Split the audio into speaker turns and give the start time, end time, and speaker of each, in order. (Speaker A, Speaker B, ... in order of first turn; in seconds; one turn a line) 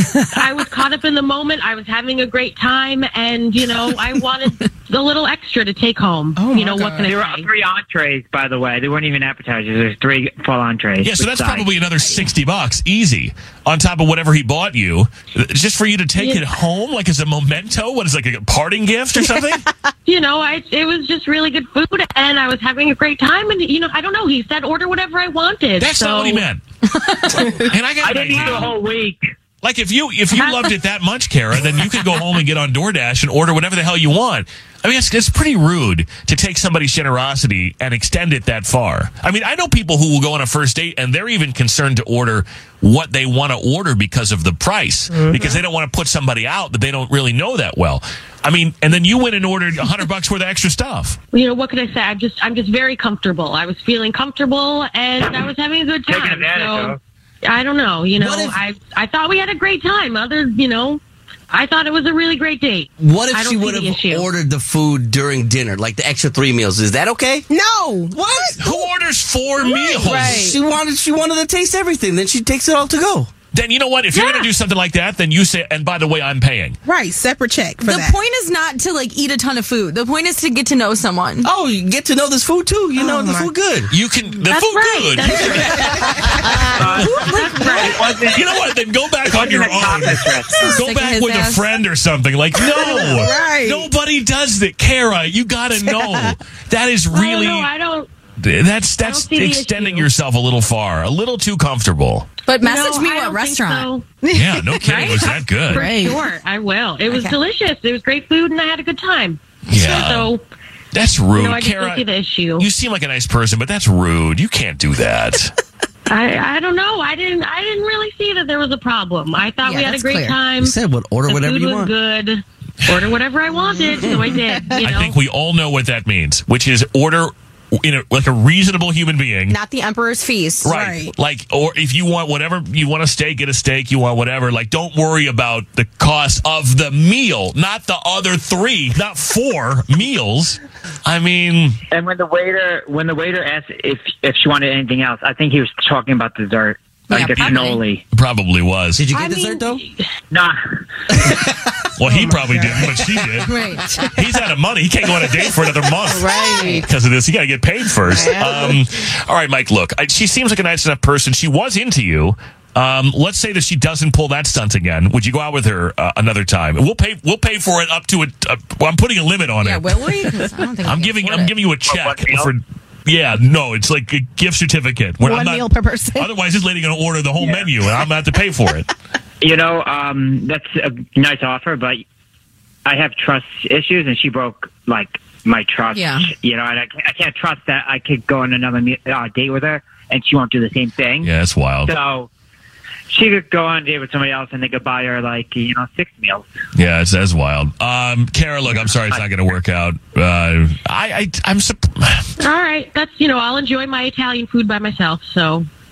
Speaker A: 0.3-7.5
Speaker B: 6.5-7.0
Speaker C: 7.0-11.7
Speaker D: 11.0-19.7
Speaker A: 16.2-16.5
Speaker A: 20.1-26.4
Speaker D: 25.8-26.6
Speaker D: 27.3-28.8
Speaker C: 28.0-29.3
Speaker A: 28.4-28.7
Speaker D: 29.6-51.2
Speaker A: 30.3-30.8
Speaker A: 51.3-64.3
Speaker C: 56.1-57.0
Speaker E: 58.2-58.6
Speaker E: 63.0-67.5
Speaker F: 67.5-68.5
Speaker D: 68.5-70.5
Speaker E: 70.0-73.3
Speaker B: 70.1-70.5
Speaker D: 73.5-76.8
Speaker F: 77.2-78.2
Speaker B: 77.8-81.5
Speaker E: 81.4-83.9
Speaker D: 83.9-86.7
Speaker A: 84.5-86.1
Speaker C: 86.8-88.4
Speaker B: 87.1-87.8
Speaker A: 87.2-87.9
Speaker D: 88.3-97.7
Speaker C: 89.3-90.6
Speaker B: 90.6-91.7
Speaker B: 92.7-93.8
Speaker B: 96.0-96.2
Speaker A: 97.1-98.1
Speaker D: 98.4-102.3
Speaker A: 99.0-100.1
Speaker B: 102.5-104.8
Speaker A: 102.6-104.2
Speaker D: 104.3-105.9
Speaker A: 104.8-110.4
Speaker B: 105.7-106.3
Speaker D: 109.7-110.3
Speaker D: 110.9-115.5
Speaker A: 111.3-112.7
Speaker A: 116.1-125.2
Speaker B: 119.7-120.4
Speaker E: 120.6-121.9
Speaker D: 124.8-129.6
Speaker B: 129.5-131.1
Speaker D: 130.6-141.8
Speaker C: 141.9-148.0
Speaker B: 147.2-147.8
Speaker D: 148.1-149.0
Speaker E: 149.0-149.8
Speaker A: 149.1-150.1
Speaker C: 150.3-150.6
Speaker D: 152.0-178.9
Speaker B: 156.2-156.8
Speaker B: 158.1-158.7
Speaker B: 169.7-171.3
Speaker C: 171.3-172.5
Speaker B: 175.3-176.2
Speaker C: 177.4-177.7
Speaker C: 179.4-182.0
Speaker C: 182.8-191.3
Speaker D: 191.2-191.9
Speaker C: 191.8-192.3
Speaker C: 193.1-196.5
Speaker D: 196.8-202.2
Speaker C: 198.7-199.2
Speaker A: 202.4-205.7